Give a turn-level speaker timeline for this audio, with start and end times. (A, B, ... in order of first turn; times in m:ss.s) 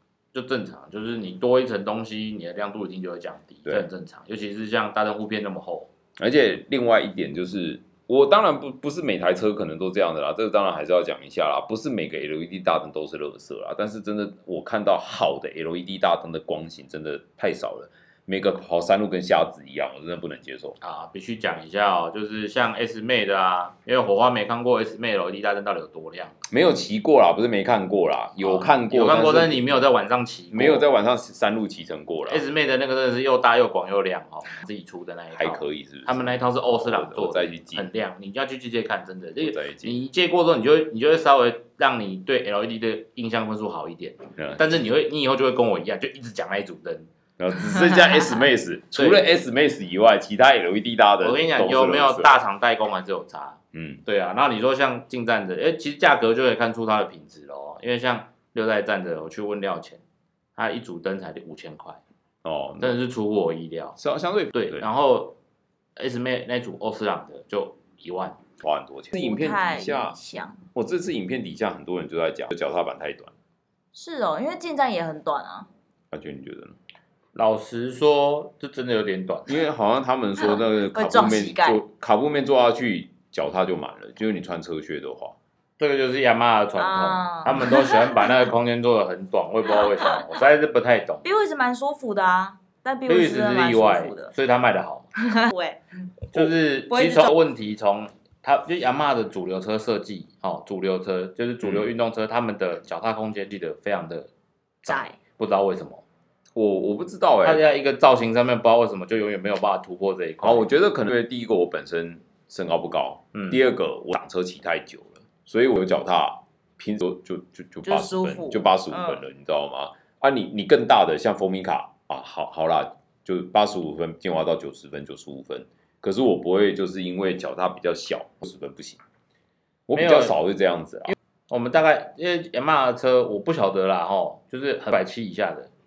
0:00.3-0:05.9 A
0:06.2-0:20.8 B
0:20.8-0:26.4 A
0:26.5-0:29.7 B
0:28.4-0:30.9 A
0:30.5-0:32.4 B
0:32.3-0:47.1 A
0:35.3-0:37.9 B
0:39.4-0:40.0 B
0:44.4-0:44.6 B
0:47.4-0:52.3 B
0:49.0-0:49.2 A
0:51.2-1:00.0 A
0:53.7-0:54.0 B
1:00.6-1:02.0 A
1:02.4-1:02.9 B
1:02.8-1:04.0 A
1:04.0-1:04.8 B
1:04.5-1:05.4 A
1:06.0-1:08.4 A
1:08.6-1:10.2 B
1:09.1-1:10.6 C
1:10.7-1:13.3 B
1:13.9-1:15.7 C
1:16.1-1:16.8 B
1:17.4-1:19.6 A
1:19.5-1:25.4 B
1:20.5-1:21.8 C
1:25.8-1:31.2 A
1:26.8-1:28.4 C
1:29.7-1:30.3 C
1:31.2-1:34.3 C
1:33.1-1:35.1 A
1:35.2-1:37.3 C
1:36.3-1:44.3 A
1:41.6-1:41.9 B
1:44.8-1:46.0 A
1:44.9-1:45.2 C
1:46.6-1:47.6 B
1:47.4-1:50.7 A
1:50.4-2:09.0 B
1:53.3-1:53.6 A
1:57.9-1:59.2 C
2:09.9-2:11.2 B
2:10.0-2:10.4 A
2:11.1-2:15.7 A